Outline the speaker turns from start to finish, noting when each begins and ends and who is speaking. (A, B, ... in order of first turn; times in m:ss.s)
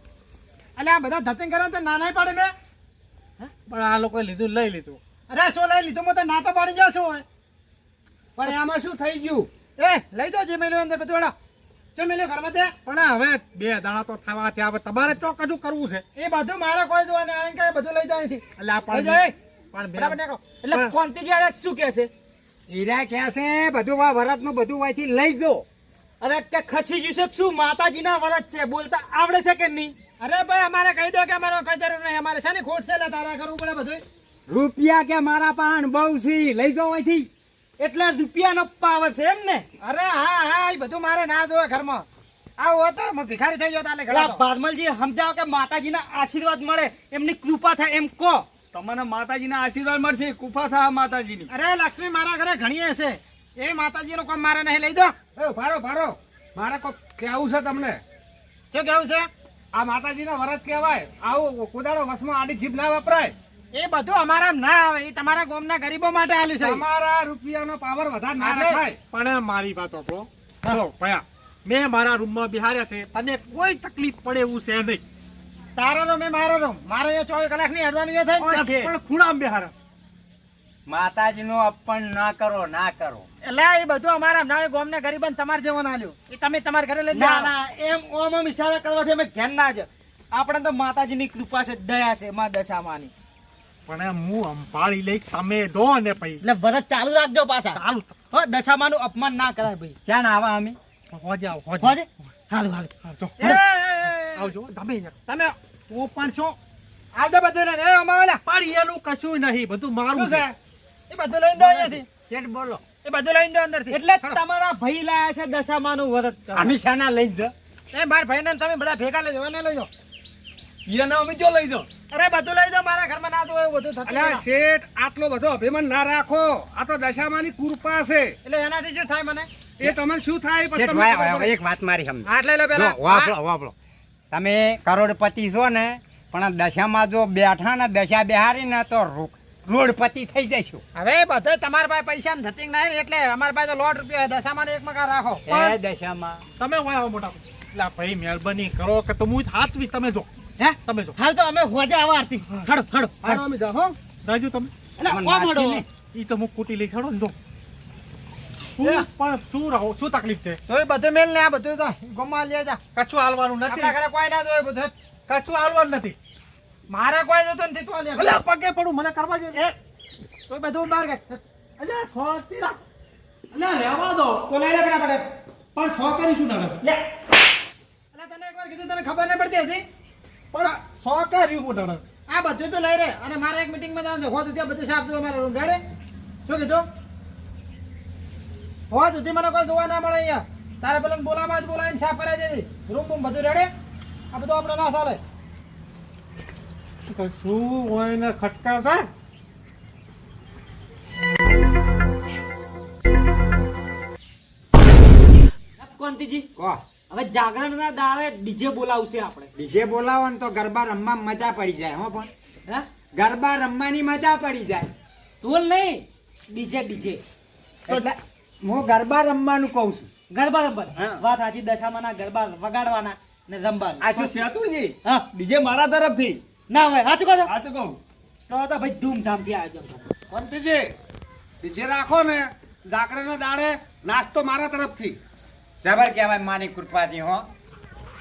0:00.8-0:02.5 A
0:03.7-0:05.0 B
0:05.3-0:07.2 A
0:08.4-0:09.5 C
0:09.8-0:11.3 A
0:12.0-0:12.7 A
0:12.8-0:16.0 B
0:16.2-0:19.4 A
0:18.6-0:20.2 B
0:20.0-0:20.4 A
0:20.6-0:22.1 D
0:22.7-0:25.6 E
0:26.2-0:29.9 D
0:30.2-0:34.0 A
0:34.5-0:37.3 E
0:37.8-0:39.6 D
0:39.8-0:42.1 A
0:42.6-0:44.4 A
0:44.1-0:48.4 D
0:48.7-0:51.5 F
0:51.5-0:55.1 A
0:55.4-0:58.0 C
0:58.7-0:59.3 A
0:59.7-1:03.3 C
1:03.7-1:06.8 A
1:06.6-1:09.0 C
1:08.4-1:08.8 A
1:09.1-1:15.0 B
1:15.8-1:18.9 A
1:18.4-1:19.7 B
1:20.9-1:23.2 E
1:23.4-1:27.5 A
1:27.1-1:33.1 D
1:33.9-1:36.4 B
1:36.4-1:40.0 D
1:37.8-1:38.2 B
1:40.0-1:40.8 E
1:41.1-1:42.0 B
1:41.8-1:42.9 D
1:43.0-1:43.6 B
1:43.4-1:44.5 A
1:44.2-1:45.1 B
1:45.3-1:46.2 A
1:45.9-1:46.4 B
1:47.2-1:48.4 A
1:48.5-1:50.5 B
1:50.1-1:50.5 A
1:51.1-1:52.1 A
1:52.3-1:52.8 F
1:53.0-1:54.4 A
1:53.9-1:56.8 D
1:56.5-1:57.5 E
1:57.9-1:59.9 A
2:00.9-2:01.9 F
2:02.1-2:04.4 A
2:04.1-2:08.4 C
2:08.4-2:09.5 A
2:09.8-2:11.5 C
2:10.7-2:13.7 E
2:12.2-2:13.3 A
2:14.3-2:20.8 E
2:21.0-2:25.7 A
2:25.5-2:26.4 E
2:26.6-2:30.3 B
2:30.6-2:33.4 D
2:30.8-2:31.1 B
2:33.2-2:34.0 C
2:34.2-2:34.7 B
2:35.0-2:35.8 D
2:35.1-2:35.8 E
2:35.8-2:37.3 B
2:38.8-2:40.6 B
2:38.8-2:39.1 A
2:40.7-2:42.8 A
2:43.0-2:43.9 B
2:43.7-2:44.9 A
2:45.3-2:46.2 B
2:46.9-2:48.3 A
2:48.2-2:49.6 B
2:50.5-2:51.4 A
2:51.8-2:52.8 B
2:53.5-2:54.4 B
2:54.5-2:55.2 A
2:55.8-2:56.8 B
2:58.1-2:59.8 A
3:00.5-3:02.0 B
3:02.3-3:05.8 A
3:06.5-3:06.9 A
3:08.9-3:13.7 A
3:14.3-3:15.2 A
3:17.1-3:19.1 B
3:25.8-3:26.5 D
3:27.1-3:29.5 D
3:29.6-3:32.3 E
3:33.2-3:34.9 E
3:35.4-3:37.2 D
3:37.9-3:40.1 E
3:40.3-3:44.3 D
3:41.0-3:41.2 E
3:44.1-3:46.4 F
3:46.7-3:47.5 D
3:47.4-3:48.0 F
3:48.5-3:50.1 D
3:50.3-3:50.9 C
3:51.6-3:55.2 C
3:55.8-3:57.5 E